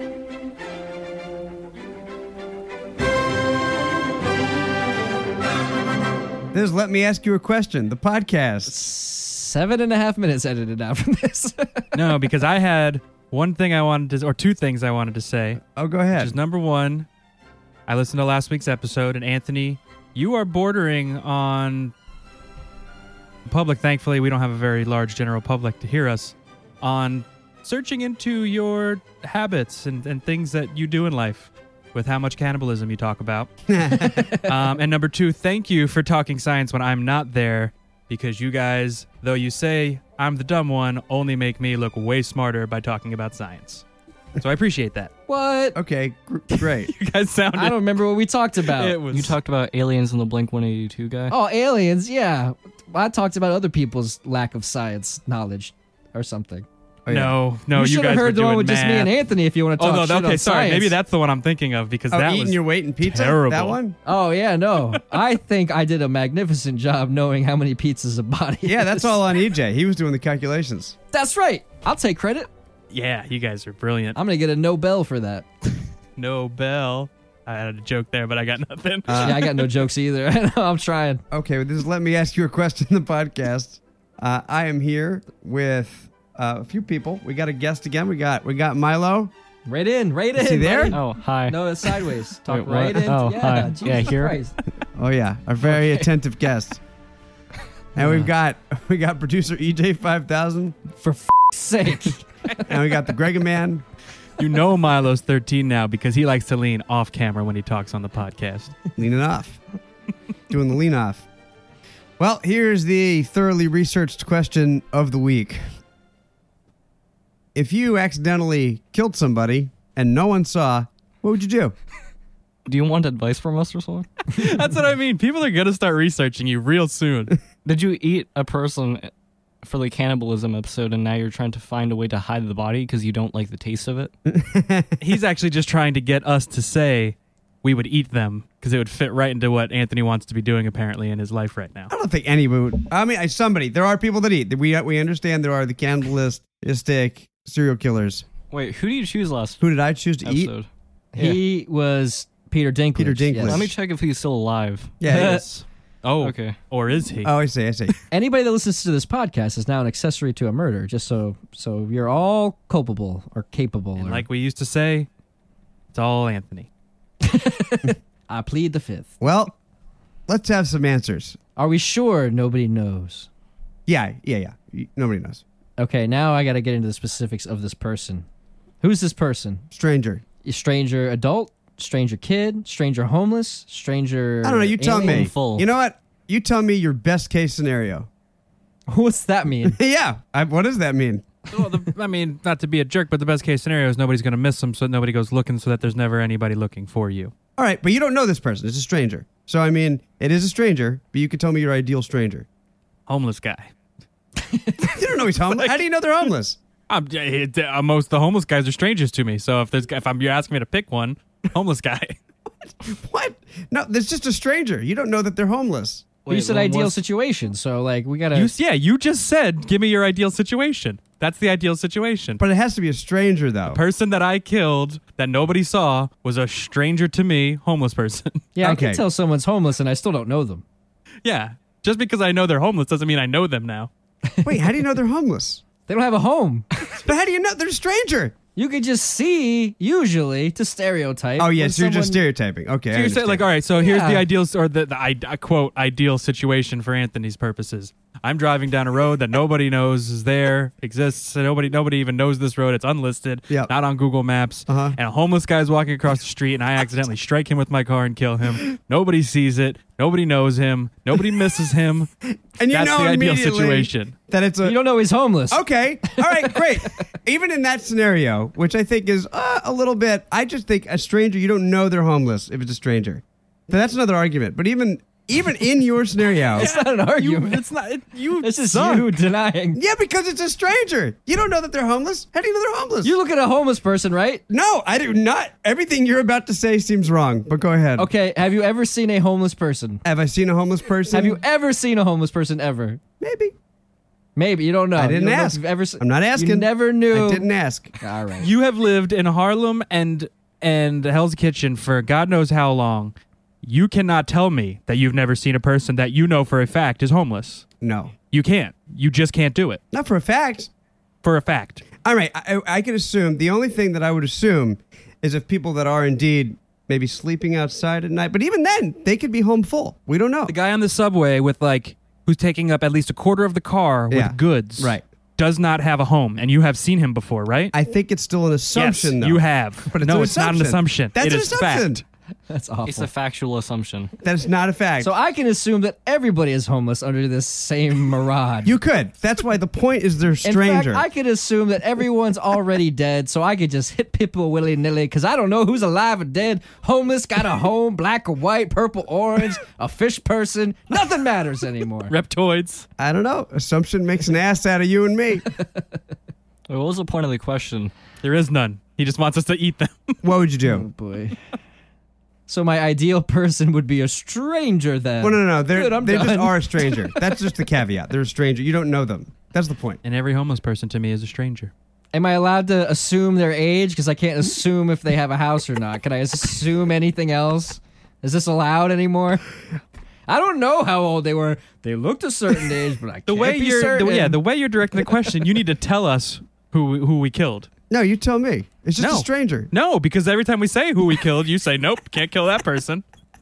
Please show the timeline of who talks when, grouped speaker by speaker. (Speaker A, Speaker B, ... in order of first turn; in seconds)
Speaker A: 6.5-8.7, 15.7-16.3, 33.7-34.4, 45.7-46.9, 57.0-57.4, 62.1-64.0, 68.6-71.0, 79.1-79.5, 81.3-89.3, 90.3-91.0, 94.9-96.8, 97.9-100.7, 102.6-103.8, 109.0-109.6, 110.5-111.2, 112.2-115.6, 117.5-121.7, 134.2-135.0, 141.9-148.2, 149.6-150.5, 152.9-153.7, 155.0-155.4, 157.2-157.9, 169.2-169.5, 170.3-171.4, 173.9-175.4, 179.7-180.2, 184.4-188.1, 189.6-191.2, 197.6-202.5, 204.8-206.6, 212.7-216.1, 222.4-223.8, 228.6-229.0, 234.4-235.6, 237.0-238.3, 241.4-243.5, 254.7-255.0, 262.6-264.8, 265.5-276.7, 279.7-283.1, 284.5-288.1, 290.0-291.4, 293.2-293.5, 294.9-297.9, 307.8-308.1, 309.9-310.7, 312.0-320.5, 324.1-325.0, 327.7-332.0, 334.2-335.1, 338.6-341.0, 353.0-355.4, 360.2-360.9, 365.2-370.0, 387.9-389.7
Speaker B: 8.7-11.9, 45.3-45.8, 47.5-49.0, 51.3-56.7, 57.7-61.0, 64.0-69.2, 71.1-72.5, 74.1-75.5, 79.2-81.2, 89.7-94.6, 101.0-102.6, 151.1-153.6, 158.1-164.2, 167.2-169.1, 171.6-173.3, 175.8-178.2, 178.8-179.7, 180.4-185.3, 188.9-189.8, 204.5-204.9, 216.3-218.5, 228.5-230.6, 234.3-234.7, 235.9-236.7, 238.6-242.2, 243.8-244.2, 264.6-267.0, 276.5-277.6, 278.4-279.8, 283.0-284.4, 288.0-290.0, 291.1-293.0, 294.4-297.5, 298.0-298.5, 332.5-333.1, 335.0-338.7, 340.4-352.1, 360.6-361.4, 362.5-367.1, 372.1-379.4, 380.3-384.4
Speaker C: 11.9-15.6, 16.1-17.1, 17.9-21.9, 23.4-33.5, 34.0-43.8, 44.4-45.1, 46.8-47.9, 48.7-49.4, 57.1-59.1, 59.8-63.8, 72.9-74.2, 76.2-79.6, 104.4-108.8, 124.3-127.4, 135.0-141.9, 156.0-157.3, 164.0-165.1, 165.9-166.7, 191.5-197.3, 203.1-203.7, 205.5-205.8, 206.9-212.2, 218.3-222.4, 223.7-228.4, 231.2-233.9, 242.9-262.1, 262.7-264.1, 276.5-279.1, 298.4-307.6, 308.3-309.8, 311.2-311.9, 320.5-327.7, 328.7-332.0, 352.1-352.9, 358.2-360.2, 370.0-371.7, 383.3-387.7, 389.0-393.0
Speaker D: 49.1-51.3, 90.9-94.4, 122.6-124.1, 127.6-129.1, 129.6-134.1, 148.5-149.6, 150.2-151.4, 153.4-155.6, 156.2-156.6, 185.0-185.7, 216.2-217.0, 332.8-334.1, 356.7-357.9